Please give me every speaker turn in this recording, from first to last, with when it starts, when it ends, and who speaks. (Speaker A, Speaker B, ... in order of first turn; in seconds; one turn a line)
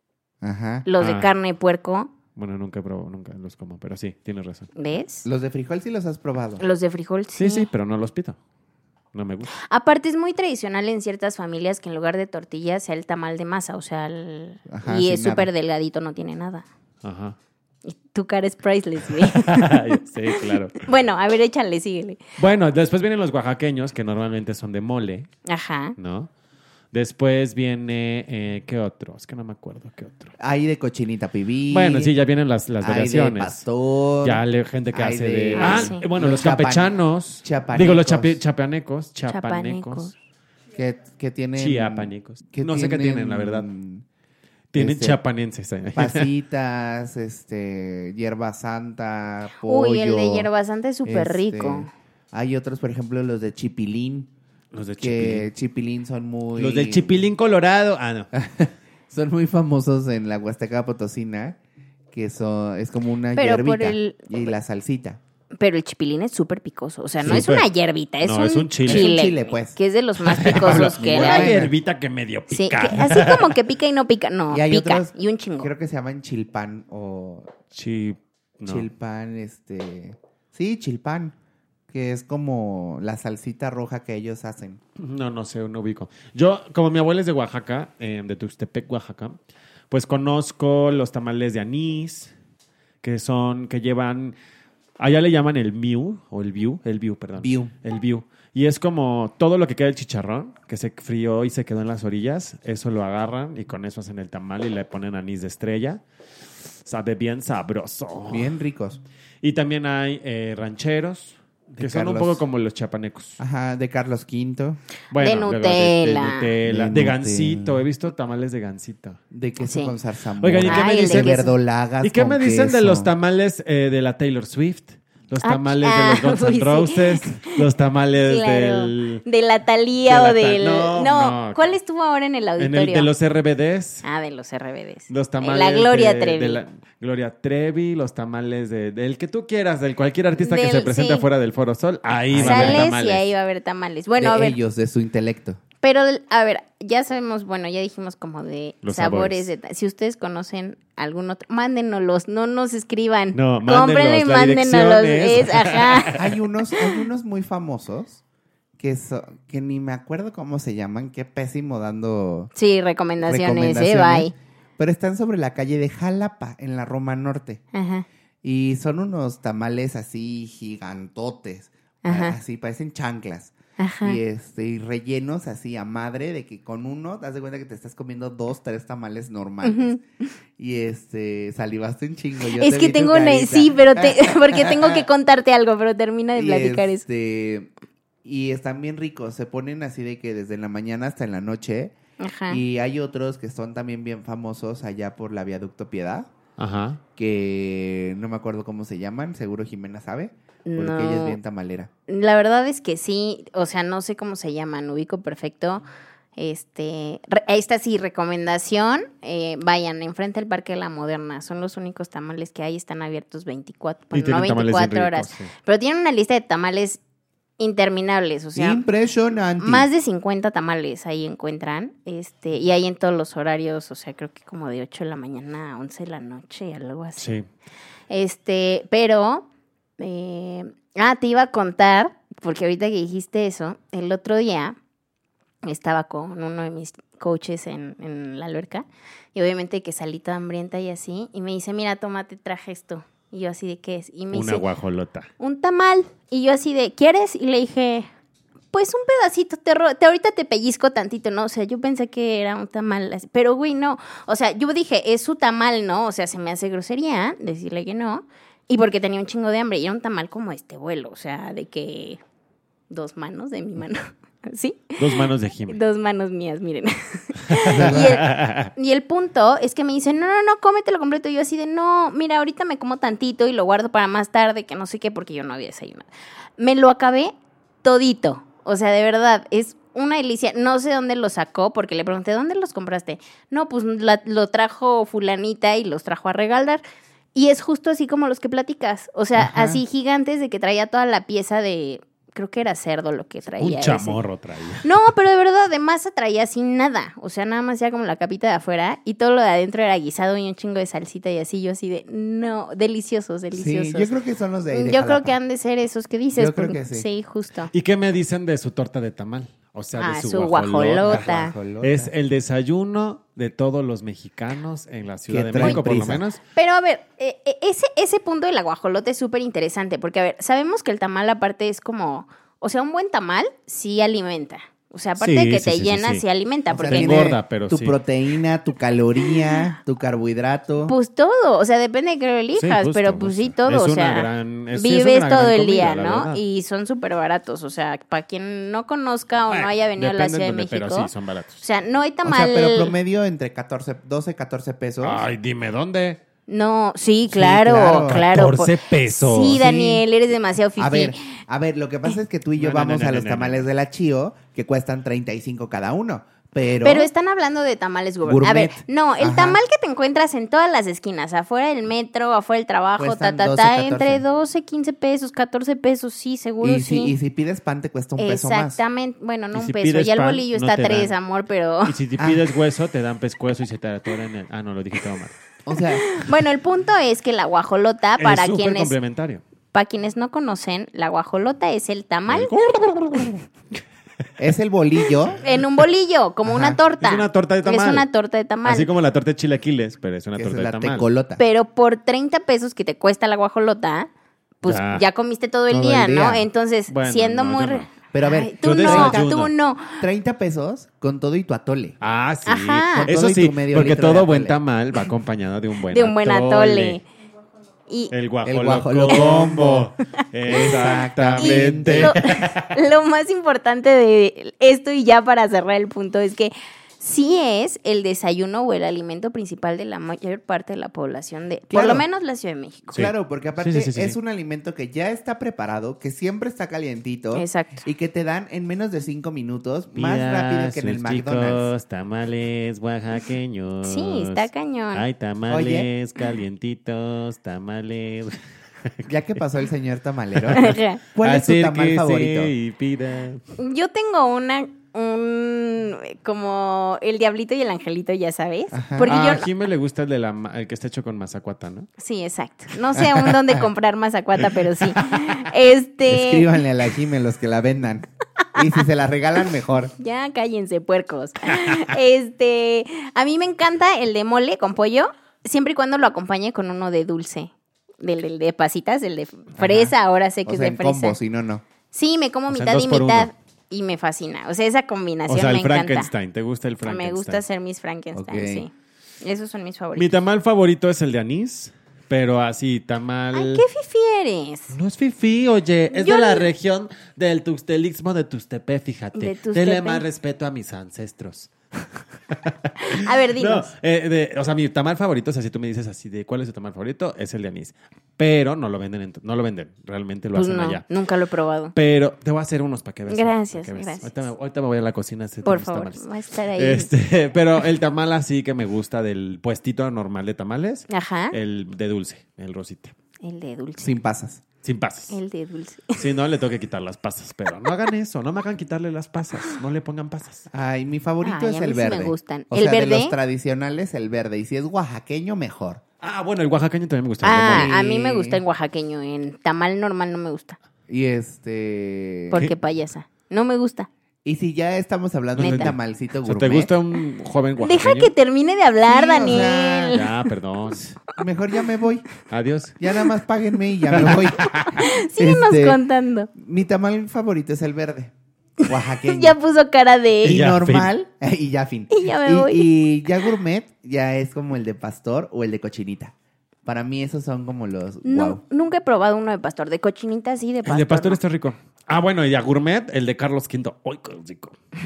Speaker A: 0.4-0.9
Speaker B: 0.8-2.1
Speaker C: 1.0-1.3
Speaker C: 2.4-4.7
Speaker B: 4.8-5.3
Speaker A: 5.2-6.6
Speaker B: 6.6-7.7
Speaker C: 7.4-8.4
Speaker C: 9.1-9.5
Speaker B: 9.6-16.6
Speaker A: 14.7-15.5
Speaker C: 17.0-17.4
Speaker B: 17.8-22.2
Speaker C: 19.2-20.9
Speaker C: 22.4-25.3
Speaker B: 25.4-25.9
Speaker C: 26.0-26.3
Speaker C: 26.9-30.3
Speaker A: 30.4-32.1
Speaker C: 31.7-33.6
Speaker A: 32.8-38.4
Speaker C: 34.2-40.1
Speaker B: 35.5-36.0
Speaker B: 39.3-40.1
Speaker A: 40.7-44.0
Speaker C: 41.6-43.7
Speaker C: 44.7-46.3
Speaker A: 44.7-45.2
Speaker A: 45.9-50.5
Speaker B: 49.6-51.9
Speaker A: 51.0-54.3
Speaker C: 54.7-55.5
Speaker A: 55.0-57.2
Speaker C: 56.5-58.3
Speaker A: 58.3-61.6
Speaker A: 62.1-65.2
Speaker B: 63.3-64.5
Speaker B: 65.6-71.6
Speaker C: 67.2-67.7
Speaker C: 68.2-69.1
Speaker A: 68.8-69.8
Speaker C: 70.2-73.6
Speaker A: 70.4-71.7
Speaker B: 72.5-75.7
Speaker A: 74.5-77.5
Speaker C: 77.7-78.8
Speaker A: 78.7-81.3
Speaker A: 81.9-84.8
Speaker C: 85.0-89.4
Speaker C: 89.9-92.3
Speaker C: 93.0-94.3
Speaker C: 95.0-106.0
Speaker A: 97.4-97.7
Speaker C: 106.8-108.5
Speaker A: 108.3-109.0
Speaker C: 109.4-113.4
Speaker A: 111.8-112.4
Speaker A: 113.4-114.8
Speaker C: 115.1-119.2
Speaker B: 115.2-116.5
Speaker A: 116.6-117.8
Speaker A: 119.3-123.1
Speaker B: 119.6-119.9
Speaker C: 120.4-121.5
Speaker B: 120.7-121.5
Speaker C: 122.0-129.2
Speaker B: 125.4-127.6
Speaker B: 128.2-133.1
Speaker C: 130.1-131.7
Speaker C: 132.6-134.1
Speaker B: 134.0-136.6
Speaker C: 135.1-143.3
Speaker B: 140.4-141.2
Speaker A: 142.3-142.9
Speaker B: 142.3-144.6
Speaker A: 144.2-145.6
Speaker B: 145.8-156.2
Speaker C: 148.8-149.5
Speaker C: 153.3-156.3
Speaker A: 156.1-158.2
Speaker A: 158.8-162.5
Speaker B: 162.5-164.3
Speaker A: 163.2-167.6
Speaker B: 167.7-168.1
Speaker A: 168.4-180.0
Speaker B: 172.0-172.3
Speaker B: 173.8-174.2
Speaker B: 179.6-180.0
Speaker A: 180.6-185.1
Speaker B: 182.5-187.0
Speaker A: 186.3-187.7
Speaker A: 188.2-191.9
Speaker B: 192.2-192.6
Speaker A: 192.5-196.3
Speaker C: 196.6-197.0
Speaker A: 197.2-201.9
Speaker B: 200.7-201.4
Speaker B: 202.1-205.8
Speaker B: 206.3-217.0
Speaker C: 214.1-215.5
Speaker B: 217.6-218.8
Speaker A: 218.5-219.9
Speaker B: 219.6-227.3
Speaker C: 227.2-227.4
Speaker B: 228.1-229.4
Speaker B: 230.0-234.8
Speaker B: 235.6-244.6
Speaker C: 244.3-245.3
Speaker B: 245.4-248.1
Speaker B: 248.7-262.2
Speaker B: 262.9-276.1
Speaker C: 265.0-265.8
Speaker C: 267.5-268.7
Speaker A: 267.7-268.2
Speaker B: 276.6-286.8
Speaker B: 287.3-294.2
Speaker A: 289.4-289.8
Speaker C: 293.6-294.9
Speaker B: 294.8-304.1
Speaker A: 303.5-305.4
Speaker B: 304.7-307.7
Speaker A: 306.3-307.1
Speaker C: 307.7-316.4
Speaker B: 310.0-311.5
Speaker A: 311.0-312.1
Speaker A: 315.3-316.2
Speaker B: 316.5-327.3
Speaker C: 325.2-326.2
Speaker A: 326.7-330.9
Speaker C: 326.8-328.0
Speaker B: 330.8-342.9
Speaker C: 332.6-336.4
Speaker C: 339.5-341.6
Speaker A: 342.2-345.2
Speaker C: 345.0-346.2
Speaker B: 346.5-351.2
Speaker A: 347.3-348.3
Speaker C: 348.1-349.6
Speaker A: 349.5-350.0
Speaker A: 350.8-357.1
Speaker C: 352.6-353.7
Speaker B: 356.8-367.1
Speaker A: 358.2-359.6
Speaker A: 363.0-364.2
Speaker A: 366.6-368.8
Speaker B: 368.2-371.9
Speaker C: 369.5-371.1
Speaker C: 371.8-375.4
Speaker A: 372.2-372.4
Speaker A: 375.6-376.1
Speaker B: 376.1-378.9
Speaker C: 378.2-379.4
Speaker B: 379.7-382.6
Speaker C: 382.3-383.4
Speaker A: 384.4-385.4
Speaker B: 385.4-388.9
Speaker A: 386.4-386.8
Speaker C: 387.0-388.1
Speaker C: 388.6-391.1
Speaker A: 390.3-391.4
Speaker B: 391.4-394.1
Speaker B: 394.6-400.0
Speaker C: 394.6-395.0
Speaker A: 395.7-396.5
Speaker C: 396.9-397.9
Speaker A: 398.1-399.4
Speaker C: 398.6-399.5
Speaker A: 399.9-402.0
Speaker C: 402.0-407.0
Speaker B: 402.5-403.1
Speaker A: 402.9-404.6
Speaker B: 405.9-407.0
Speaker B: 407.9-408.1
Speaker C: 408.1-412.7
Speaker A: 408.4-409.9
Speaker A: 410.4-412.2
Speaker B: 410.5-410.8
Speaker B: 411.4-423.0
Speaker A: 421.7-422.0
Speaker C: 422.9-424.1
Speaker A: 422.9-431.7
Speaker B: 427.3-427.8
Speaker C: 429.9-439.1
Speaker B: 433.8-435.0
Speaker A: 435.5-435.9
Speaker A: 439.1-442.5
Speaker C: 440.4-443.4
Speaker B: 440.5-441.0
Speaker B: 443.6-449.5
Speaker A: 448.7-449.1
Speaker C: 449.1-451.9
Speaker B: 452.0-456.5
Speaker A: 453.0-453.6
Speaker A: 456.1-459.9
Speaker B: 460.0-471.2
Speaker A: 469.6-469.9
Speaker A: 470.4-471.6
Speaker B: 471.9-476.1
Speaker C: 472.5-473.3
Speaker C: 475.3-477.4
Speaker B: 476.8-480.1
Speaker A: 478.1-478.7
Speaker C: 479.9-483.6
Speaker B: 483.3-484.7
Speaker C: 484.7-491.5
Speaker B: 485.9-486.5
Speaker B: 489.1-490.0
Speaker C: 492.3-500.9
Speaker B: 492.8-493.7
Speaker B: 500.3-501.7
Speaker C: 501.7-512.9
Speaker B: 503.1-504.1
Speaker B: 505.4-506.9
Speaker B: 510.9-511.4
Speaker B: 513.2-513.9
Speaker A: 513.8-514.4
Speaker C: 514.6-515.1
Speaker B: 515.1-516.0
Speaker C: 516.0-520.5
Speaker A: 520.5-525.8
Speaker B: 521.2-523.1
Speaker C: 526.0-527.7
Speaker B: 527.2-530.6
Speaker A: 527.5-528.4
Speaker A: 530.9-532.5
Speaker B: 532.3-533.9
Speaker A: 534.2-536.7
Speaker C: 535.4-538.1
Speaker B: 535.4-535.7
Speaker B: 537.6-540.1
Speaker A: 538.9-540.0
Speaker C: 539.9-541.0
Speaker A: 541.2-542.1
Speaker C: 542.3-542.8
Speaker A: 542.8-545.8
Speaker C: 543.9-544.8
Speaker B: 544.7-546.3
Speaker A: 546.3-548.1
Speaker A: 548.6-549.4
Speaker B: 549.0-550.4
Speaker A: 550.2-556.1
Speaker C: 550.2-550.9
Speaker B: 551.9-552.7
Speaker A: 556.6-558.4
Speaker B: 558.0-561.2
Speaker C: 560.6-564.5